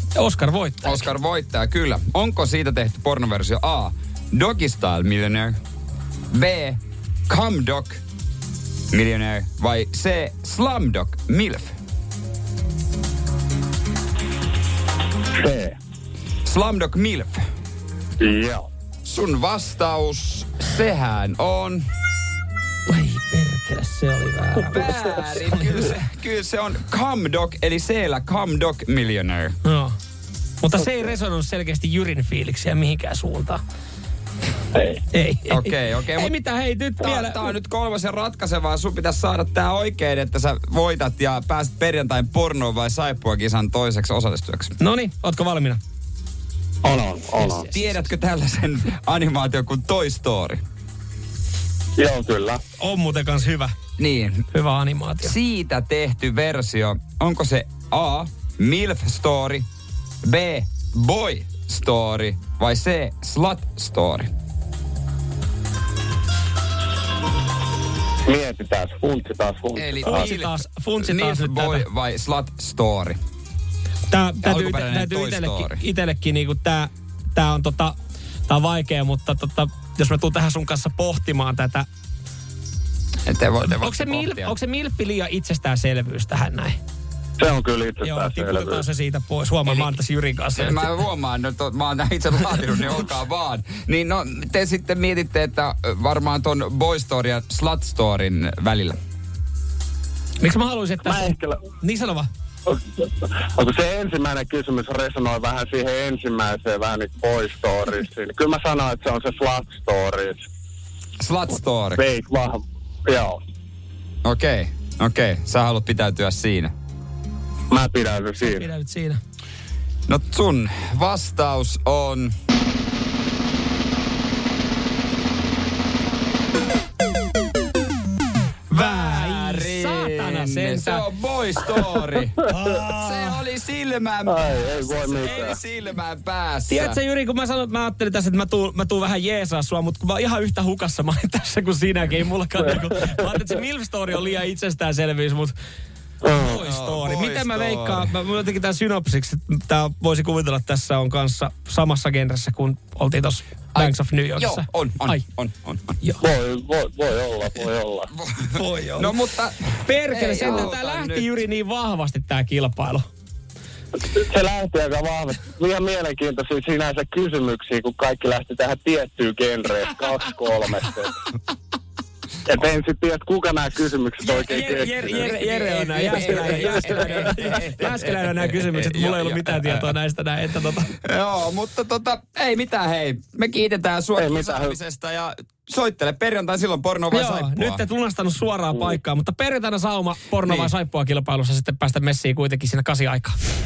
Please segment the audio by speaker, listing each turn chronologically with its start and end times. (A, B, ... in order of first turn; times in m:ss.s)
0:00.2-0:01.1 A
0:00.8-0:05.5 B
0:06.3-0:08.0 B
0:08.9-0:11.8 B
0:15.4-0:15.8 C
0:16.4-0:17.4 B
0:18.2-0:18.7 C
0:19.0-0:21.8 B
0:22.9-0:25.9 A
0:24.6-0:29.5 B
0:29.6-0:30.0 A
0:30.6-0:33.6 A
0:35.1-0:37.4 A
0:35.5-0:36.3 B
0:37.0-0:44.8 B
0:44.8-0:45.8 A
0:46.8-0:47.7 C
0:47.4-0:48.0 A
0:47.7-0:50.6 B
0:52.0-0:52.6 C
0:52.8-0:53.8 A
0:54.0-0:54.4 B
0:54.5-0:55.3 A
0:55.2-0:59.7 B
1:00.2-1:04.3 B
1:08.2-1:10.3 C
1:09.8-1:13.2 B
1:10.0-1:11.9 A
1:14.1-1:18.0 A
1:14.4-1:15.8 B
1:18.5-1:21.9 A
1:23.3-1:24.5 B
1:23.6-1:26.8 A
1:27.4-1:28.8 C
1:28.0-1:30.9 A
1:29.7-1:30.0 B
1:30.6-1:39.0 B
1:32.5-1:32.9 A
1:40.4-1:42.3 A
1:41.0-1:41.6 C
1:42.7-1:50.4 C
1:51.2-1:52.0 B
1:52.0-1:53.4 C
1:54.2-1:56.7 B
1:57.7-1:58.7 C
1:58.4-1:59.2 A
2:00.1-2:02.3 B
2:08.7-2:11.0 A
2:08.7-2:17.0 B
2:12.5-2:13.4 A
2:14.3-2:15.6 C
2:16.7-2:25.5 A
2:26.2-2:26.6 C
2:26.4-2:35.2 A
2:26.6-2:28.1 B
2:33.7-2:35.9 B
2:36.2-2:38.1 C
2:38.1-2:41.3 B
2:38.5-2:39.1 A
2:39.8-2:43.1 A
2:44.1-2:51.1 C
2:52.5-2:55.3 C
2:54.2-3:00.9 A
2:55.0-2:59.9 B
2:56.1-2:57.5 C
3:00.9-3:07.9 B
3:04.2-3:04.8 C
3:07.1-3:13.4 A
3:10.4-3:10.7 B